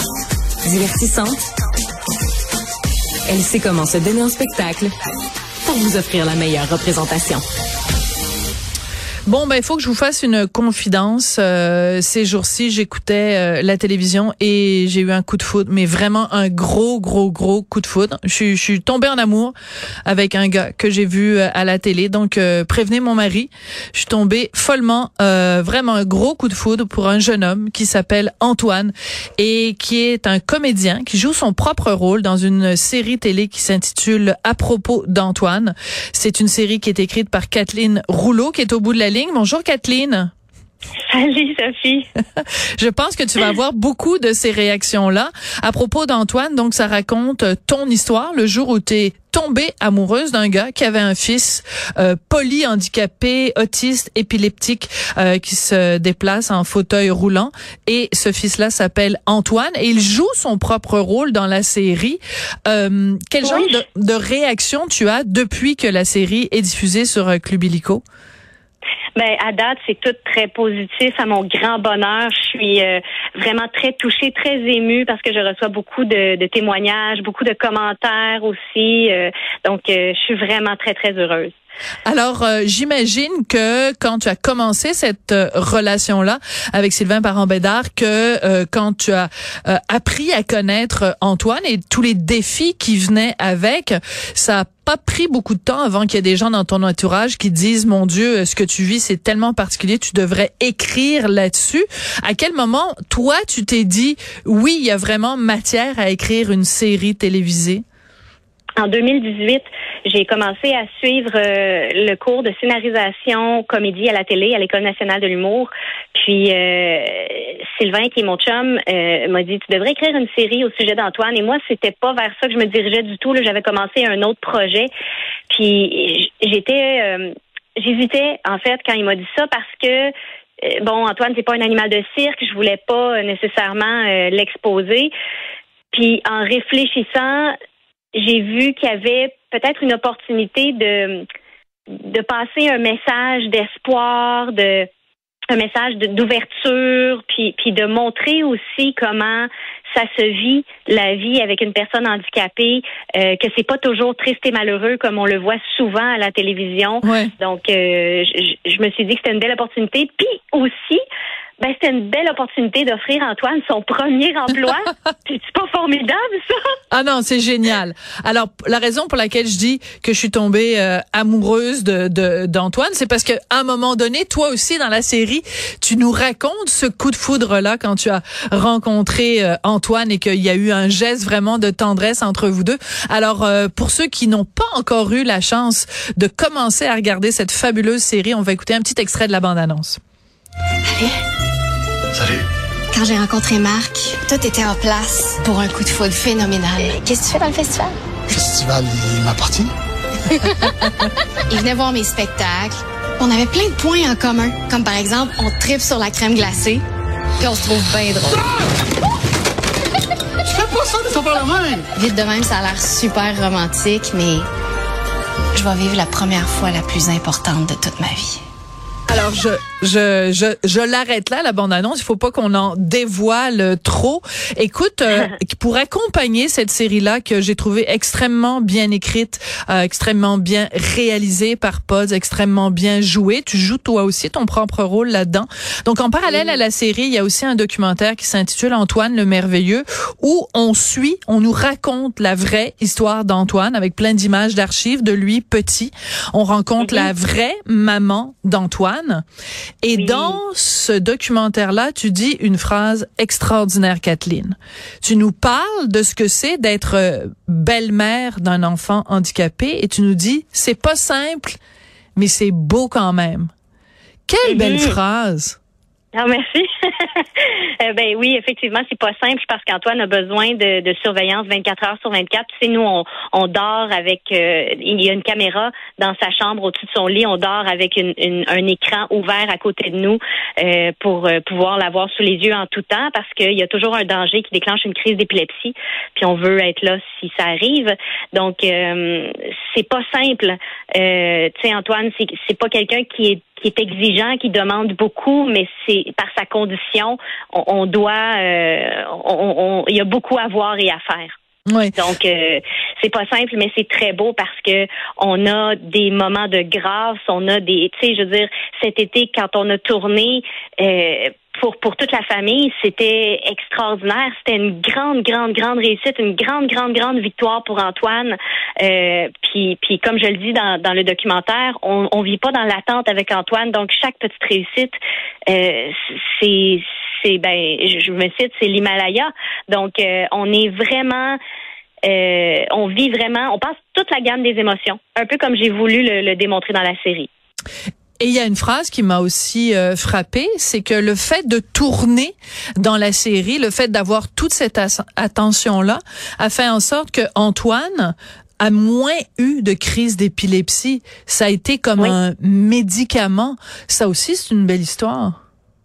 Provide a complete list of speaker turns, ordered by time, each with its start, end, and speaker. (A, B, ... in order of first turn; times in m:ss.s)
0:00.6-0:01.4 A
0:03.3-0:04.9 A
0:05.6-0:07.4 A
0:09.3-0:19.5 B
0:20.0-0:40.3 B
0:41.1-0:42.0 C
0:42.4-1:08.0 B
1:03.4-1:03.7 C
1:09.2-1:21.5 C
1:22.0-1:47.8 B
1:48.8-2:04.9 C
2:05.5-2:15.1 C
2:15.9-2:17.5 C
2:18.2-2:21.2 C
2:21.9-2:24.9 C
2:25.5-2:41.0 C
2:37.0-2:37.3 B
2:41.6-2:46.7 C
2:46.9-3:10.0 B
3:10.8-3:11.2 D
3:12.9-3:17.9 D
3:18.3-3:19.7 E
3:20.3-3:20.6 D
3:21.5-3:26.8 D
3:27.4-3:28.4 D
3:30.4-3:31.9 E
3:31.9-3:34.5 D
3:35.5-3:38.4 D
3:39.1-4:09.2 B
3:56.3-3:56.6 C
4:06.8-4:07.1 C
4:09.8-4:21.6 B
4:09.9-4:10.4 C
4:22.2-4:23.5 B
4:24.3-4:25.6 B
4:24.4-4:25.0 C
4:26.1-5:01.3 C
5:01.7-5:02.0 B
5:01.9-5:25.0 C
5:25.5-5:31.4 C
5:32.0-5:37.3 C
5:38.2-5:55.3 B